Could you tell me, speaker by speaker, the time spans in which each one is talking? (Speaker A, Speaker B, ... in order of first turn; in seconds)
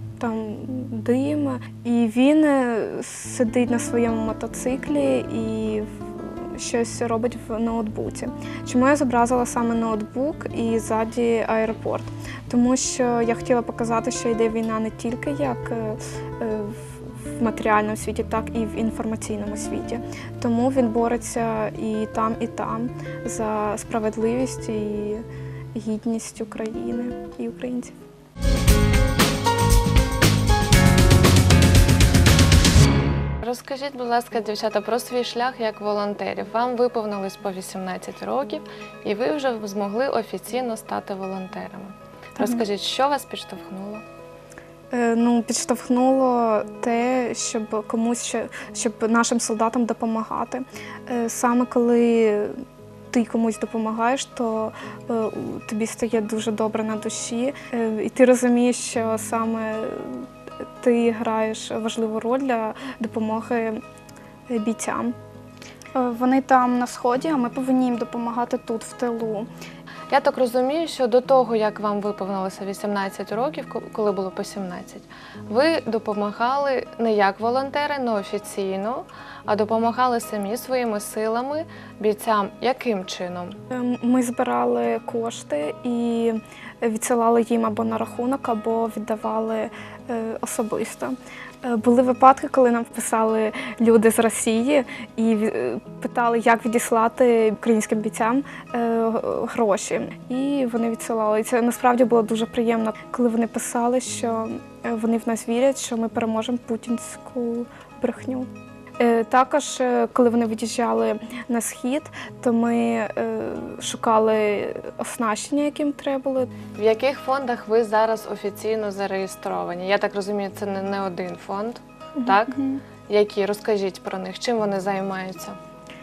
Speaker A: 0.2-27.9, 42.4-42.6, 44.9-63.8, 64.5-65.2, 83.7-116.5
Speaker B: 33.4-44.0, 70.1-83.6, 116.8-125.6
Speaker C: 66.0-69.5